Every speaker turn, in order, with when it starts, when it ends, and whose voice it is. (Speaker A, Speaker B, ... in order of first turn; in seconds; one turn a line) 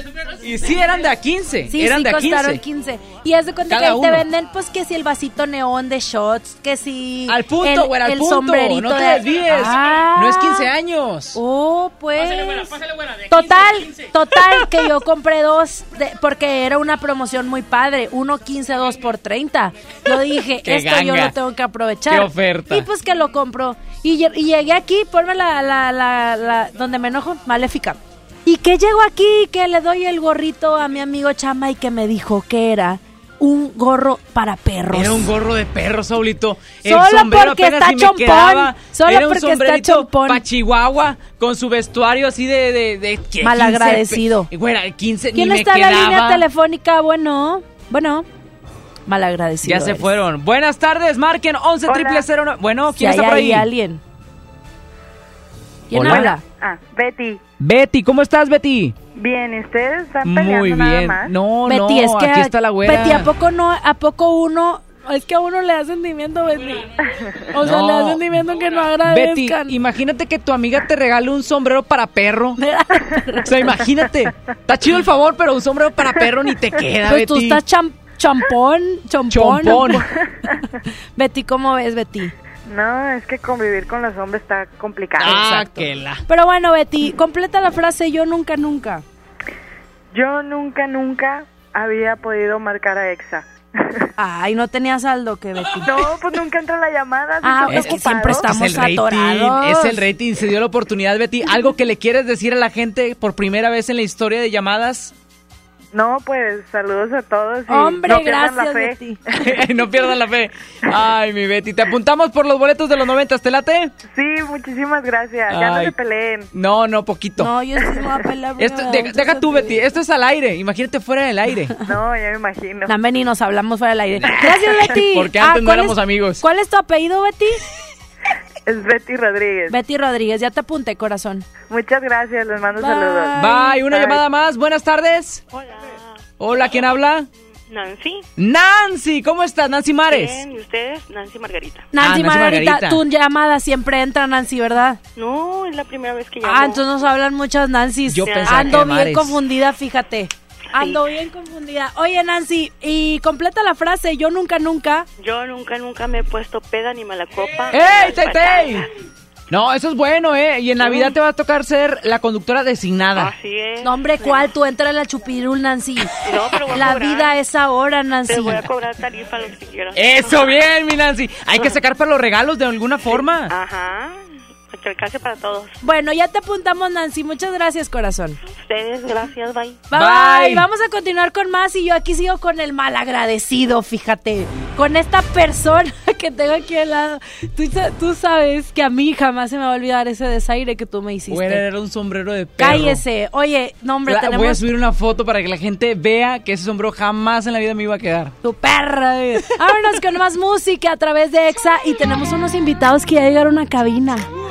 Speaker A: 0.4-2.6
Speaker B: 1.7-10.7
Speaker A: 3.7-4.2
Speaker A: 7.3-11.4
Speaker B: 11.3-35.3
Speaker A: 20.6-21.3
Speaker A: 22.1-22.9
Speaker A: 34.9-46.4
Speaker B: 36.8-40.4
Speaker B: 43.4-44.5
Speaker B: 45.3-48.2
Speaker B: 49.1-50.1
Speaker A: 49.6-53.6
Speaker B: 53.0-54.0
Speaker A: 55.9-56.4
Speaker B: 55.9-56.4
Speaker C: 56.7-57.3
Speaker A: 57.6-59.0
Speaker C: 59.2-61.3
Speaker A: 60.2-63.3
Speaker B: 61.6-66.9
Speaker B: 67.5-69.7
Speaker A: 67.6-68.4
Speaker A: 69.0-72.6
Speaker B: 72.6-73.5
Speaker A: 73.5-77.6
Speaker B: 77.0-80.0
Speaker A: 79.3-80.0
Speaker B: 81.2-82.3
Speaker C: 82.7-85.2
Speaker A: 85.2-86.2
Speaker B: 85.3-89.0
Speaker C: 90.1-93.4
Speaker B: 94.2-96.0
Speaker C: 95.9-98.4
Speaker B: 97.4-100.0
Speaker A: 97.7-105.1
Speaker C: 105.9-108.9
Speaker B: 107.7-109.2
Speaker A: 109.3-113.9
Speaker C: 114.2-116.4
Speaker A: 115.5-116.0
Speaker A: 116.5-117.5
Speaker B: 117.4-119.8
Speaker A: 118.6-121.8
Speaker C: 121.9-122.9
Speaker B: 122.9-127.6
Speaker A: 124.2-126.4
Speaker C: 128.7-129.7
Speaker B: 129.7-131.4
Speaker C: 131.7-133.2
Speaker B: 132.8-133.8
Speaker A: 133.4-135.4
Speaker D: 135.5-136.8
Speaker A: 136.4-137.3
Speaker D: 137.7-138.2
Speaker A: 138.4-140.4
Speaker D: 140.1-141.9
Speaker B: 141.9-145.0
Speaker A: 142.0-143.0
Speaker D: 145.2-147.0
Speaker B: 146.4-155.1
Speaker A: 148.1-149.3
Speaker D: 148.2-148.8
Speaker D: 155.2-158.9
Speaker A: 157.7-158.8
Speaker A: 159.5-163.3
Speaker D: 160.8-161.1
Speaker D: 163.1-164.5
Speaker B: 163.8-166.1
Speaker D: 166.2-167.3
Speaker B: 166.7-168.6
Speaker D: 168.2-170.6
Speaker A: 169.9-173.5
Speaker D: 173.5-175.7
Speaker B: 175.8-178.4
Speaker D: 178.7-179.8
Speaker B: 179.9-191.6
Speaker A: 179.9-180.6
Speaker A: 191.3-193.0
Speaker B: 192.6-194.6
Speaker A: 194.1-198.3
Speaker B: 198.4-204.3